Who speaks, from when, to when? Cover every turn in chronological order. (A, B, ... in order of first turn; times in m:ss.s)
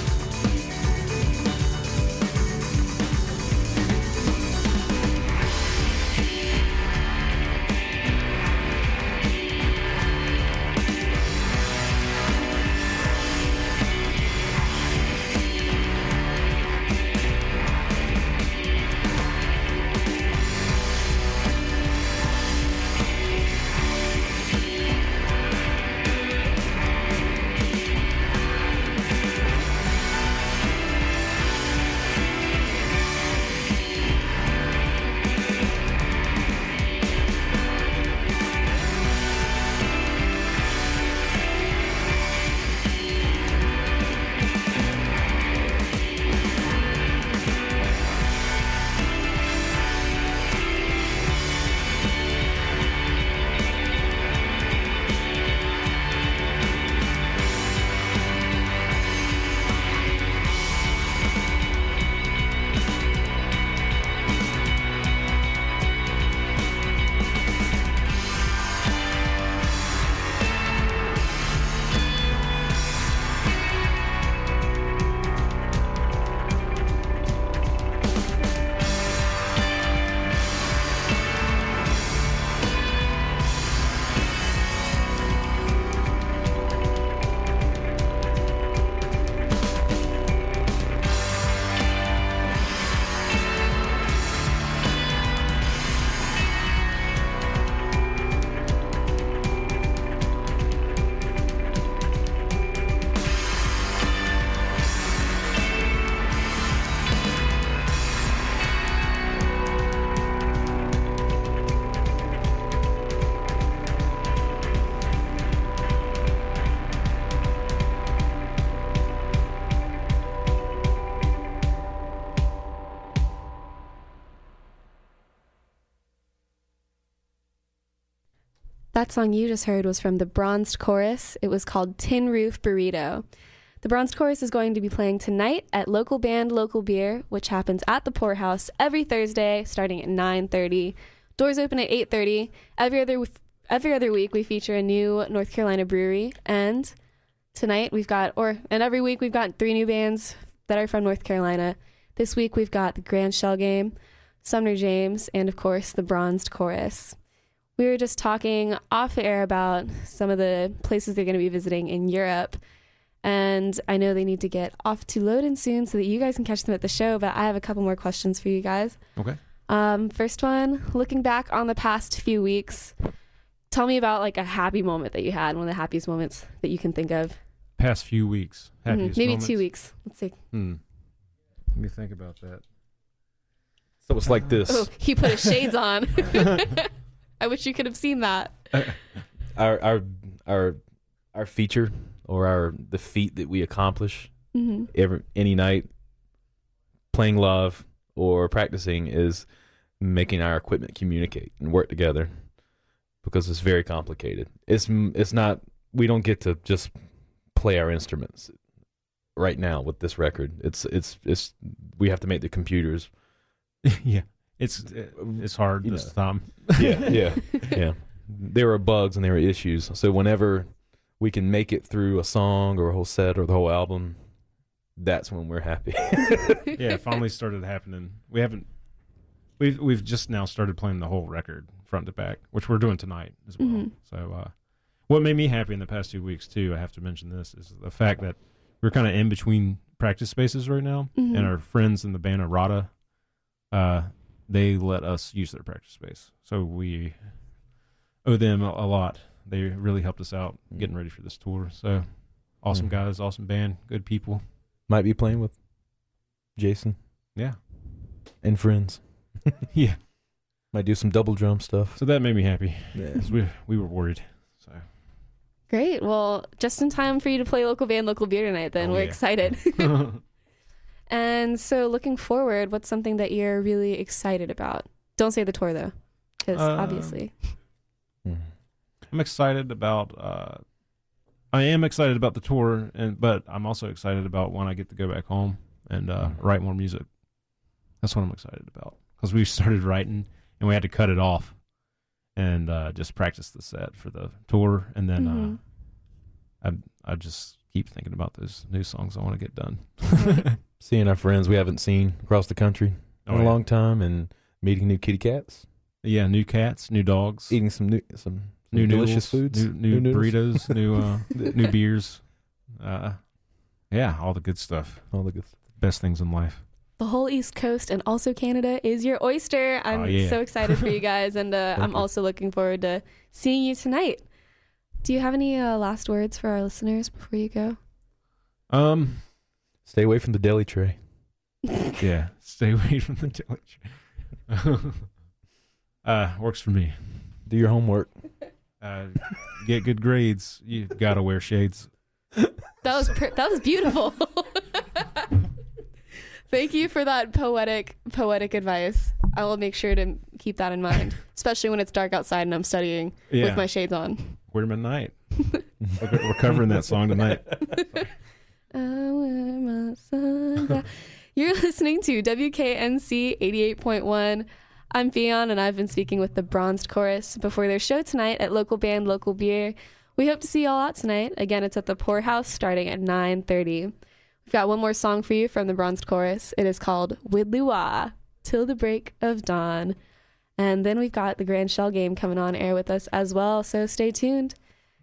2:08.9-2:13.2 A
2:13.8-2:27.0 A
2:27.5-2:37.2 A
2:37.8-2:42.6 A
2:43.2-2:49.0 A
2:49.7-2:53.0 A
2:53.7-2:57.4 A
2:57.8-2:59.7 B
2:58.9-3:00.4 A
3:00.5-3:00.8 B
3:01.7-3:02.6 B
3:04.1-3:05.0 C
3:04.7-3:08.7 A
3:08.7-3:09.2 B
3:09.5-3:10.8 C
3:11.3-3:15.9 C
3:14.5-3:14.9 A
3:17.1-3:22.6 C
3:23.2-3:28.7 C
3:29.3-3:33.1 C
3:33.9-3:37.6 B
3:35.2-3:44.4 C
3:45.0-3:46.7 C
3:46.8-3:48.7 B
3:49.6-4:03.0 B
3:53.6-3:53.9 A
4:01.2-4:01.5 A
4:03.7-4:07.7 B
4:08.2-4:14.5 B
4:14.9-4:15.7 C
4:16.5-4:17.0 C
4:18.4-4:19.6 C
4:19.7-4:20.0 B
4:20.7-4:22.2 C
4:22.0-4:24.9 B
4:22.9-4:23.3 C
4:25.7-4:30.0 A
4:28.8-4:30.2 B
4:31.1-4:37.6 A
4:36.5-4:37.2 B
4:39.1-4:40.6 B
4:41.5-4:47.2 B
4:47.9-4:51.7 B
4:52.3-4:55.7 B
4:55.2-4:55.6 A
4:56.6-5:00.5 B
5:00.2-5:00.4 A
5:00.8-5:05.6 C
5:03.3-5:03.7 B
5:06.0-5:07.6 B
5:07.5-5:10.8 C
5:08.7-5:16.6 B
5:15.1-5:15.6 C
5:17.0-5:24.3 A
5:19.9-5:20.8 B
5:21.8-5:22.1 C
5:25.0-5:27.8 A
5:28.7-5:29.3 B
5:29.8-5:31.0 C
5:32.0-5:35.1 B
5:36.0-5:37.4 B
5:37.5-5:38.3 C
5:38.8-5:41.9 B
5:42.8-5:45.3 A
5:46.5-5:54.4 A
5:53.3-5:53.7 B
5:54.5-5:58.1 B
5:57.7-5:58.0 A
5:58.7-6:13.9 A
6:14.4-6:20.0 A
6:20.6-6:24.6 A